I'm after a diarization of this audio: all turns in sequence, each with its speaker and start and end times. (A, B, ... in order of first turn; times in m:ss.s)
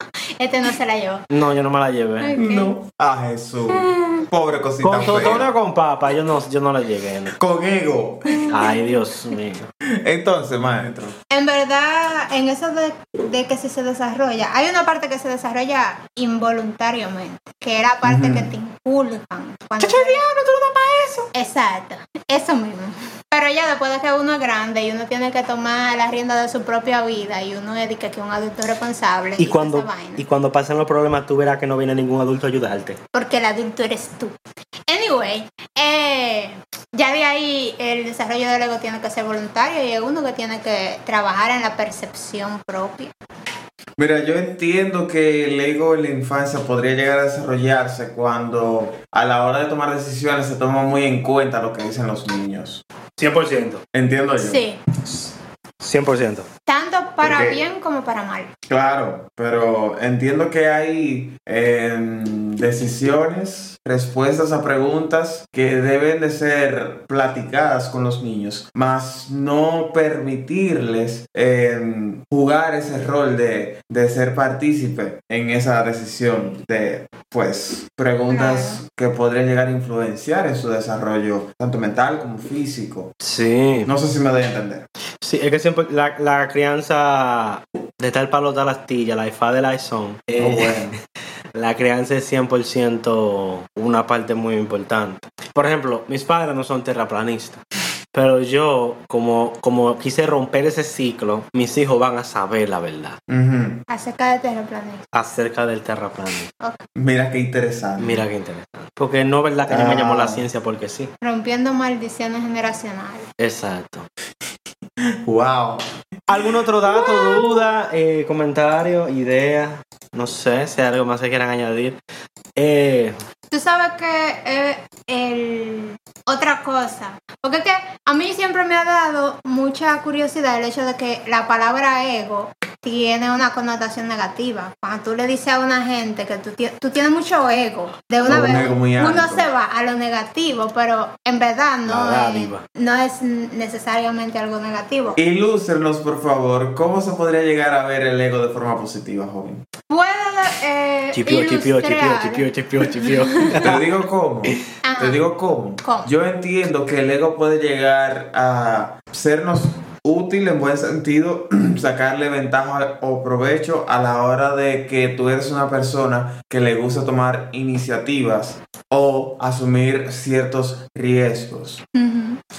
0:00.4-0:01.3 A
0:01.3-0:02.3 B
0:02.2-0:02.8 A
0:02.3-0:05.5 C
0:03.7-0:04.2 A
0:04.8-0:07.3 B
0:07.3-0:08.5 C
0:08.3-0:08.7 A
0:08.5-0:09.7 B
0:10.0-0:11.2 C
0:11.3-0:20.2 A
0:18.0-0:18.5 C
0:19.8-0:21.3 B
0:21.3-0:30.2 A
0:29.4-0:33.0 B
0:33.1-0:34.3 A
0:34.9-0:43.1 A
0:44.0-0:52.8 C
0:53.2-0:53.8 B
0:53.9-0:54.6 C
0:54.4-0:54.8 A
0:55.8-0:56.5 B
0:56.6-0:58.5 A
0:57.2-0:57.6 C
0:58.7-1:23.1 C
1:18.3-1:18.8 A
1:23.2-1:23.9 B
1:23.8-1:24.8 C
1:25.2-1:30.9 B
1:30.4-1:31.0 C
1:31.5-1:43.2 B
1:43.3-1:43.8 C
1:43.9-1:45.0 A
1:45.1-1:46.5 B
1:46.6-1:46.8 A
1:46.9-1:48.2 C
1:48.0-1:51.1 B
1:49.7-1:50.4 C
1:51.2-1:53.3 A
1:53.4-1:54.1 B
1:55.0-1:56.3 C
1:56.3-2:02.0 B
1:56.9-1:57.6 A
2:02.6-2:03.2 B
2:03.5-2:25.2 A
2:18.2-2:19.5 C
2:21.8-2:22.6 B
2:25.2-2:29.6 C
2:29.9-2:33.6 A
2:31.1-2:33.8 B
2:33.6-2:51.8 C
2:34.8-2:35.2 A
2:35.8-2:36.1 A
2:51.9-2:52.4 A